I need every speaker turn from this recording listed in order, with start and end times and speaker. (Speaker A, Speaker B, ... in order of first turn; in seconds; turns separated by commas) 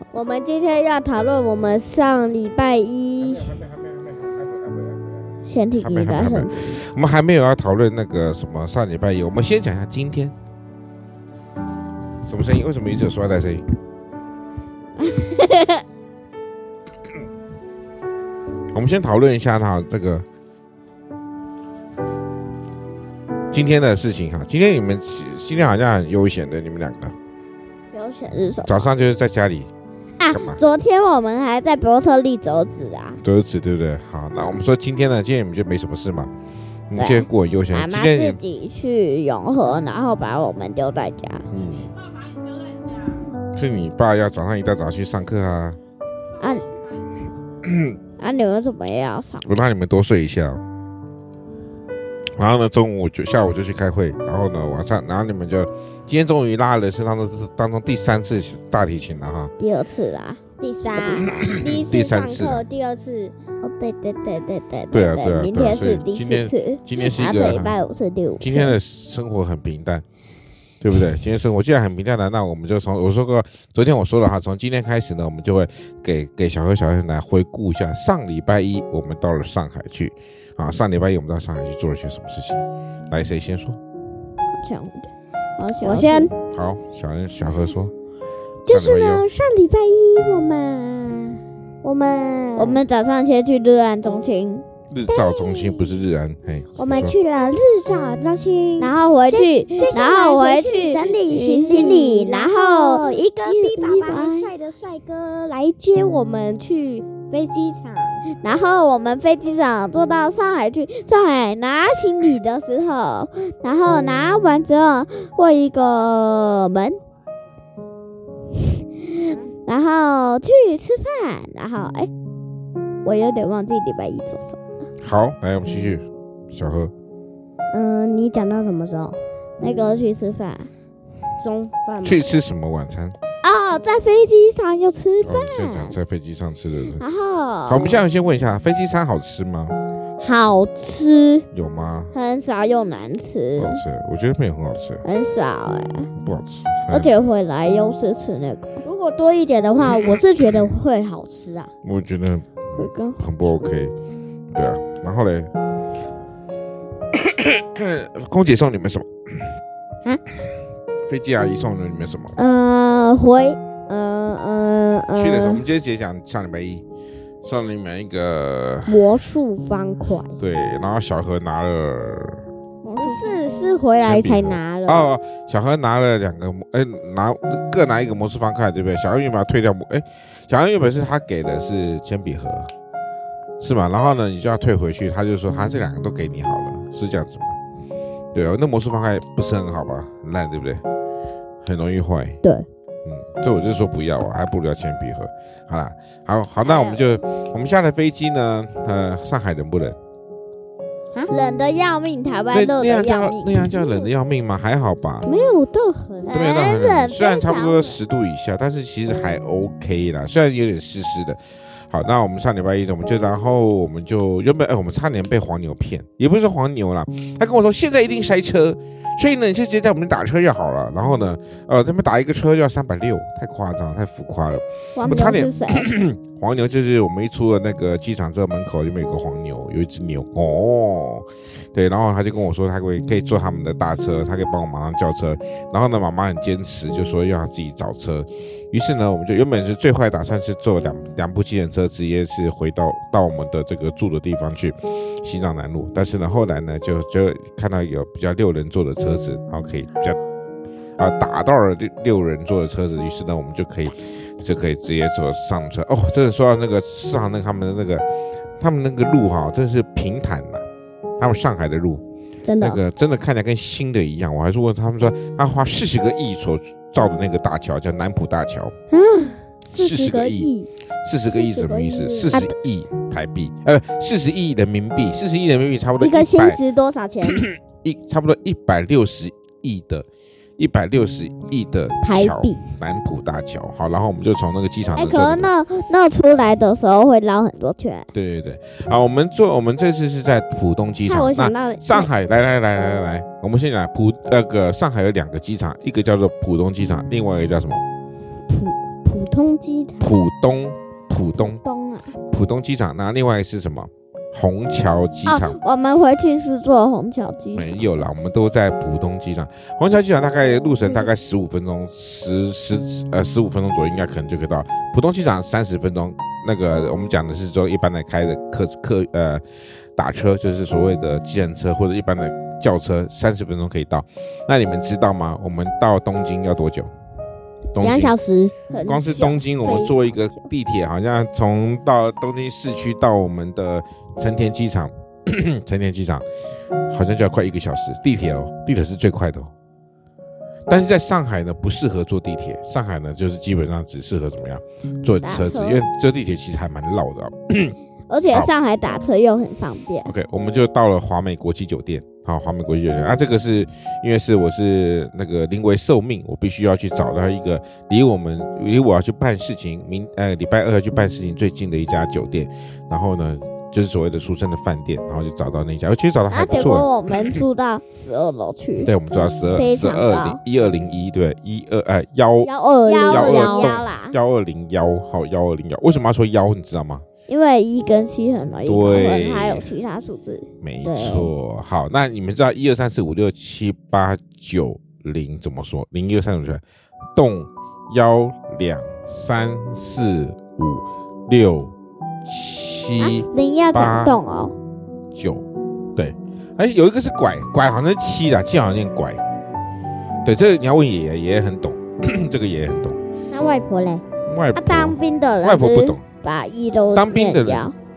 Speaker A: 0.1-3.7, Speaker B: 5.5-6.8, Speaker C: 5.8-10.3, Speaker C: 12.2-13.7, Speaker B: 15.0-15.8, Speaker C: 18.7-20.2, Speaker C: 23.5-27.1, Speaker B: 27.9-28.9, Speaker C: 28.7-29.7, Speaker B: 30.2-33.2, Speaker C: 30.3-30.6, Speaker C: 33.2-36.3, Speaker C: 36.9-38.4, Speaker B: 37.0-41.5, Speaker C: 41.5-42.0, Speaker C: 43.5-45.8, Speaker B: 46.4-46.7, Speaker C: 47.6-48.0, Speaker B: 48.2-49.5, Speaker C: 49.4-50.6, Speaker C: 52.4-59.5, Speaker B: 59.6-61.5, Speaker A: 60.6-63.4, Speaker C: 61.1-62.6, Speaker B: 63.6-68.8, Speaker C: 64.9-67.8, Speaker C: 68.4-70.0, Speaker C: 70.8-83.8, Speaker B: 84.5-86.3, Speaker A: 85.8-86.3, Speaker C: 86.5-87.9, Speaker A: 88.7-92.8, Speaker C: 88.7-89.2, Speaker B: 92.6-94.7, Speaker C: 94.9-97.2, Speaker A: 95.1-95.6, Speaker A: 96.8-108.3, Speaker B: 98.8-104.5, Speaker B: 108.3-117.0, Speaker B: 119.0-122.1, Speaker B: 123.0-124.6, Speaker C: 125.0-126.9, Speaker A: 127.7-129.2, Speaker B: 129.6-130.7, Speaker A: 131.4-132.2, Speaker C: 132.0-133.2, Speaker B: 133.4-135.9, Speaker C: 135.2-137.0, Speaker B: 137.0-138.0, Speaker C: 137.7-139.7, Speaker A: 140.2-141.4, Speaker C: 141.5-142.2, Speaker B: 142.1-143.8, Speaker C: 143.6-145.0, Speaker B: 145.0-146.1, Speaker C: 146.2-147.1, Speaker B: 146.9-148.8, Speaker A: 148.8-151.7, Speaker C: 151.8-153.9, Speaker B: 152.8-153.7, Speaker C: 154.5-155.5, Speaker C: 157.1-159.5, Speaker C: 161.1-162.4, Speaker A: 162.4-165.6, Speaker C: 165.2-166.8, Speaker C: 167.4-169.1, Speaker A: 168.9-170.3, Speaker C: 170.4-172.5, Speaker B: 172.8-173.4, Speaker A: 173.0-175.1, Speaker C: 174.0-182.7, Speaker C: 183.6-187.6, Speaker C: 188.3-190.8, Speaker C: 191.7-192.4, Speaker C: 193.1-200.0, Speaker B: 196.6-197.0, Speaker B: 201.3-203.7, Speaker C: 202.5-205.3, Speaker A: 205.2-206.4, Speaker B: 206.3-208.0, Speaker C: 206.3-250.2, Speaker B: 224.9-225.9, Speaker C: 251.0-258.0, Speaker C: 258.6-260.6, Speaker C: 261.2-262.0, Speaker A: 262.4-262.8, Speaker C: 262.6-268.7, Speaker A: 268.9-270.7, Speaker C: 269.7-270.5, Speaker C: 271.1-276.6, Speaker B: 271.3-272.5, Speaker A: 276.0-277.4, Speaker C: 277.2-280.1, Speaker C: 280.6-285.5, Speaker A: 282.0-282.6, Speaker B: 285.0-288.1, Speaker C: 288.1-297.8, Speaker A: 291.1-292.1, Speaker A: 298.5-300.2, Speaker C: 300.0-301.6, Speaker B: 301.5-302.1, Speaker C: 302.3-305.6, Speaker B: 305.3-307.8, Speaker C: 307.6-319.4, Speaker C: 320.0-326.9, Speaker C: 327.7-328.2, Speaker A: 327.8-328.5, Speaker B: 328.7-330.1, Speaker C: 328.9-336.2, Speaker C: 336.9-339.5, Speaker C: 340.7-347.8, Speaker B: 345.2-345.8, Speaker B: 348.1-350.1, Speaker C: 350.0-367.4, Speaker B: 366.3-368.9, Speaker C: 368.8-372.5, Speaker B: 369.5-370.4, Speaker A: 372.4-373.8, Speaker B: 372.5-374.1, Speaker C: 373.1-377.1, Speaker B: 377.3-381.3, Speaker C: 378.7-379.7, Speaker C: 380.6-386.6, Speaker C: 387.1-391.7, Speaker C: 392.2-394.2, Speaker B: 393.0-394.6, Speaker C: 395.1-399.2, Speaker C: 400.2-403.0, Speaker A: 403.3-404.0, Speaker C: 404.3-406.0, Speaker B: 404.6-407.8, Speaker C: 406.9-407.7